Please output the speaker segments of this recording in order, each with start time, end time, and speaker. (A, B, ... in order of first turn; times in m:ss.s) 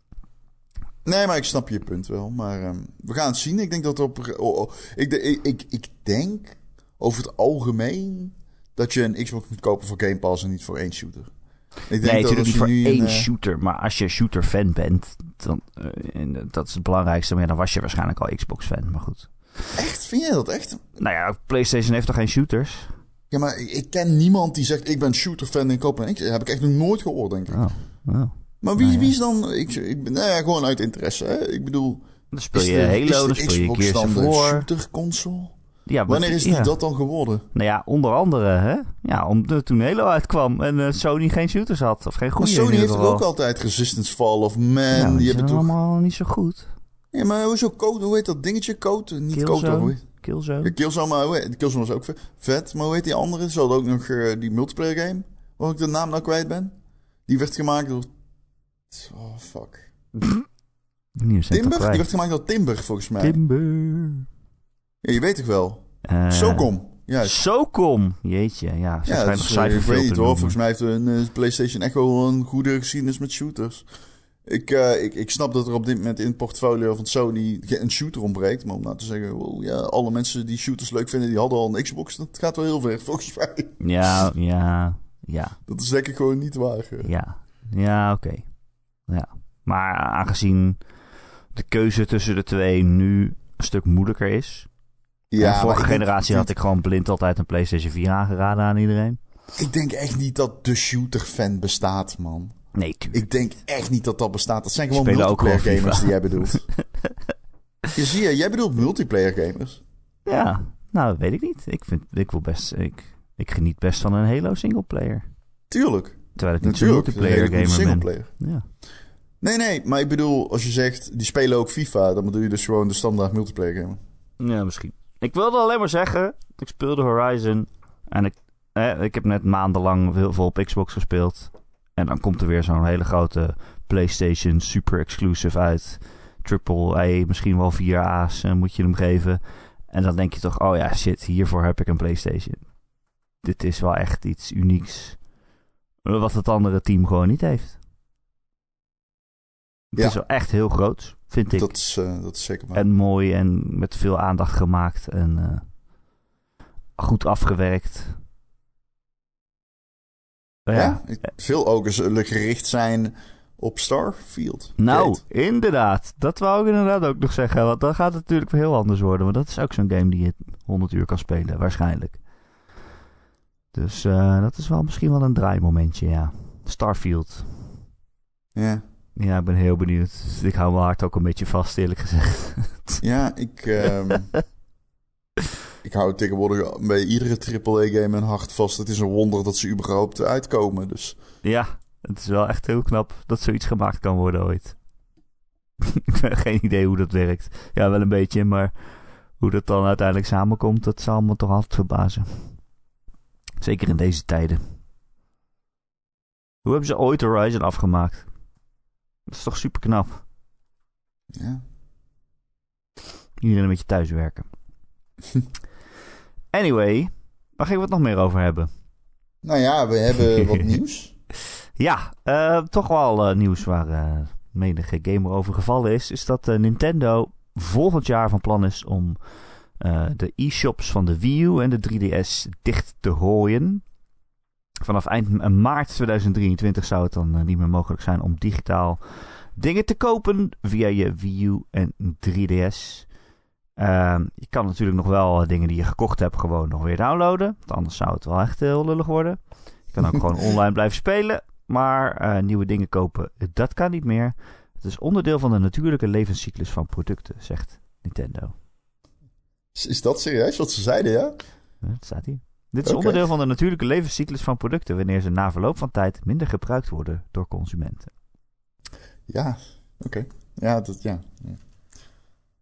0:01.0-0:11.3 A
0:11.9-0:13.3 A
0:12.0-0:19.8 B
0:19.8-0:21.0 A
0:21.0-0:22.9 B
0:23.3-0:27.6 A
0:27.5-0:29.1 B
0:28.6-0:35.6 A
0:32.3-0:34.7 B
0:35.9-0:36.8 B
0:36.1-0:37.5 A
0:37.5-0:43.3 B
0:42.4-0:45.7 A
0:44.9-0:46.7 B
0:47.1-0:50.0 A
0:49.3-0:50.8 B
0:50.6-0:56.8 A
0:57.3-0:58.1 A
0:58.9-0:59.9 A
1:01.2-1:02.1 B
1:01.5-1:03.4 A
1:03.2-1:04.3 B
1:05.0-1:07.4 A
1:06.0-1:10.6 B
1:09.1-1:13.8 A
1:14.5-1:23.8 A
1:23.8-1:25.6 B
1:25.7-1:27.1 A
1:27.0-1:28.5 B
1:29.1-1:30.8 B
1:31.5-1:34.7 B
1:35.3-1:36.5 A
1:35.4-1:39.2 B
1:39.6-1:42.5 A
1:42.8-1:43.3 B
1:43.1-1:46.6 A
1:44.9-1:47.1 B
1:48.0-1:49.8 A
1:50.3-1:55.2 B
1:55.7-1:58.3 A
1:56.4-1:58.6 B
1:59.4-2:04.0 A
2:04.4-2:22.7 B
2:23.4-2:25.2 B
2:26.0-2:27.8 B
2:29.9-2:31.7 B
2:31.5-2:32.8 A
2:32.7-2:35.7 B
2:37.0-2:38.2 B
2:40.7-2:41.0 B
2:40.7-2:45.2 A
2:44.8-2:52.2 B
2:53.7-2:57.8 B
2:58.6-2:58.8 A
2:59.2-3:03.0 B
3:03.0-3:04.3 A
3:05.8-3:11.2 A
3:11.4-3:14.8 B
3:15.8-3:18.7 B
3:19.4-3:22.6 B
3:23.6-3:24.6 B
3:26.6-3:28.3 B
3:29.3-3:30.2 B
3:31.3-3:31.6 A
3:33.4-3:34.5 B
3:36.5-3:38.7 B
3:39.4-3:41.1 A
3:40.4-3:40.7 B
3:41.8-3:49.2 B
3:49.8-3:53.8 B
3:54.8-4:03.1 B
4:03.8-4:18.6 B
4:19.7-4:21.4 A
4:21.8-4:28.1 B
4:22.8-4:23.2 A
4:29.3-4:31.6 A